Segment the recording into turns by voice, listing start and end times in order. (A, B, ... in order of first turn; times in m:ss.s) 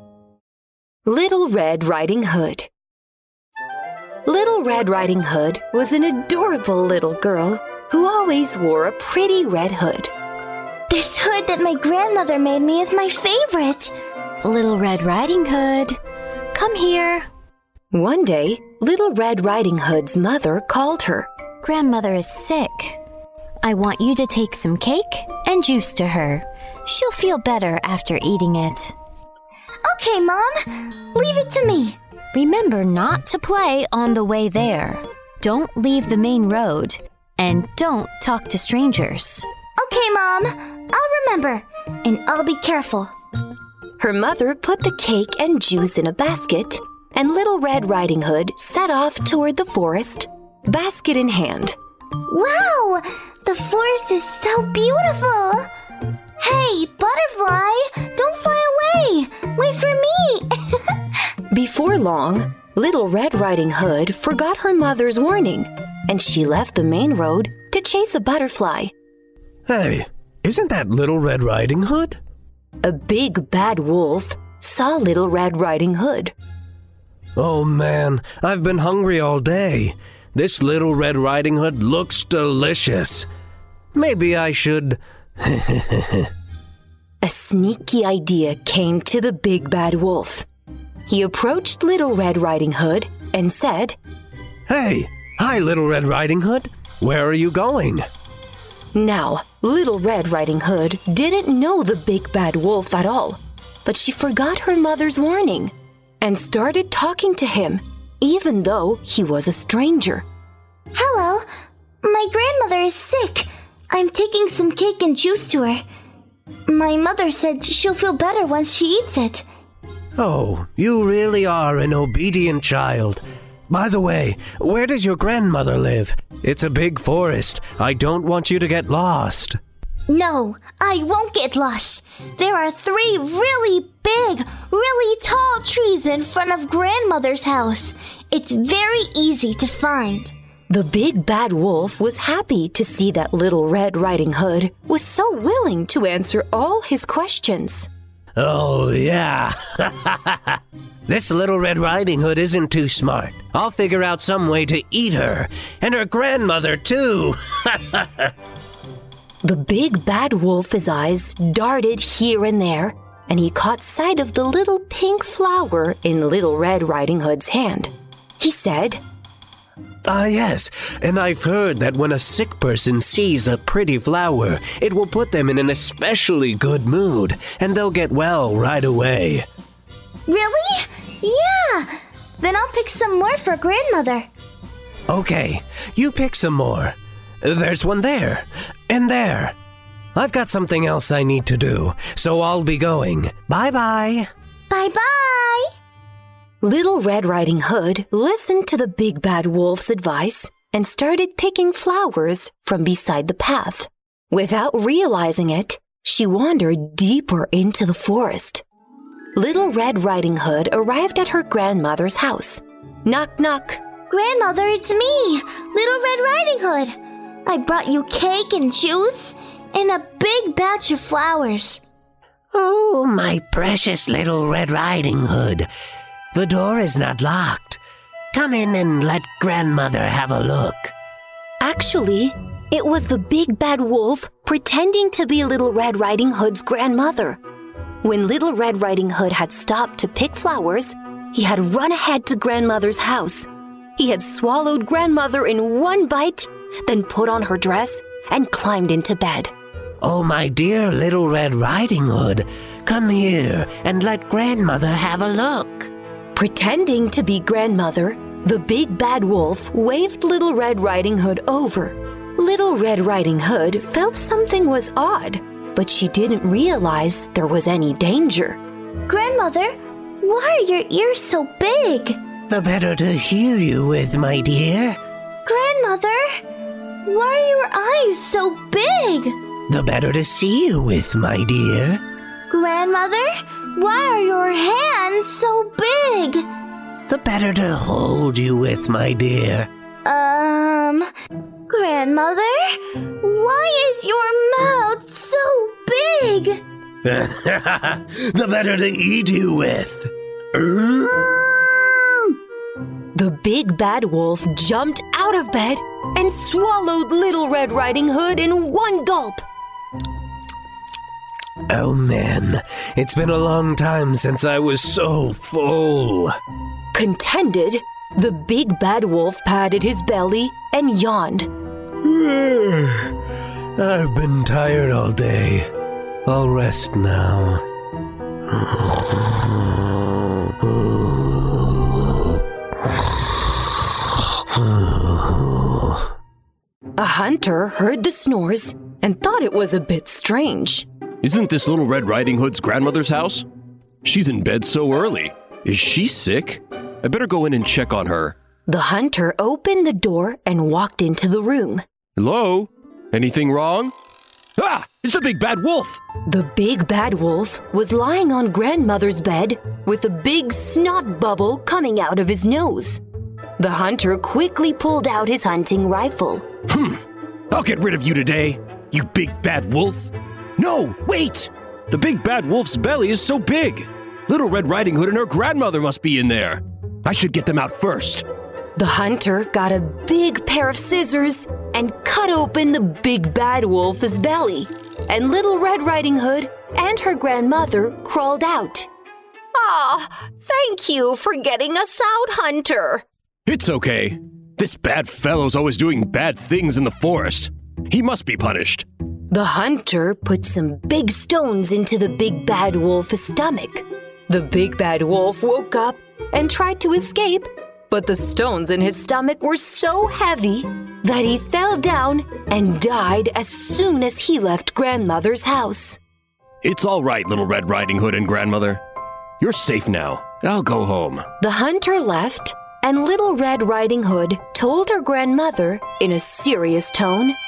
0:01.1-0:02.7 A
0:04.3-0:10.1 A
0:10.9-0:13.9 B
0:14.4-0:16.0 C
0:16.5-0:17.2 C
0:17.9-0:21.3 A
0:21.6-0:23.0 C
0:23.6-0:28.9 C
0:29.8-0:32.0 B
0:32.3-0:39.5 C
0:39.8-0:43.1 B
0:44.0-0:51.8 A
0:52.3-0:55.7 B
0:56.4-1:01.0 B
1:01.5-1:08.9 A
1:09.7-1:12.2 D
1:12.8-1:16.3 A
1:17.4-1:23.3 D
1:23.9-1:26.3 D
1:27.2-1:30.4 A
1:31.1-1:34.0 A
1:34.7-1:38.1 D
1:38.9-1:50.2 A
1:50.9-1:51.4 B
1:52.0-1:55.8 B
1:56.7-1:59.4 B
2:00.2-2:09.6 D
2:10.1-2:20.3 B
2:20.7-2:27.9 A
2:28.4-2:38.3 D
2:39.4-2:49.0 A
2:50.1-2:59.5 D
3:00.3-3:04.3 B
3:05.1-3:09.6 D
3:10.2-3:14.3 D
3:14.7-3:15.7 B
3:16.6-3:28.6 A
3:29.4-3:33.8 A
3:34.1-3:37.0 B
3:37.5-3:41.8 B
3:42.5-3:45.7 D
3:46.3-3:47.8 D
3:48.3-3:50.9 D
3:51.6-3:57.4 A
3:58.0-4:09.5 A
4:10.0-4:15.9 D
4:16.4-4:28.6 A
4:29.1-4:32.2 B
4:32.5-4:35.0 D
4:35.4-4:36.4 B
4:37.1-4:39.4 B
4:39.7-4:42.0 D
4:42.5-4:46.5 B
4:47.1-4:49.7 D
4:50.0-4:51.0 B
4:51.7-4:56.6 B
4:57.0-5:01.5 D
5:03.1-5:09.4 A
5:11.7-5:16.4 D
5:16.9-5:21.5 A
5:22.0-5:23.1 D
5:23.8-5:25.7 D
5:26.3-5:27.6 D
5:28.5-5:32.4 D
5:34.5-5:36.1 D
5:37.0-5:40.9 A
5:41.2-5:43.5 E
5:44.0-5:48.4 E
5:48.7-5:51.8 A
5:52.2-5:53.9 E
5:54.6-5:56.0 E
5:56.3-6:03.0 A
6:03.6-6:06.5 A
6:06.7-6:18.3 E
6:18.8-6:28.9 A
6:29.6-6:33.0 A
6:33.5-6:38.9 E
6:39.3-6:56.0 A
6:56.6-6:58.8 E
6:59.4-7:01.3 E
7:01.4-7:07.4 A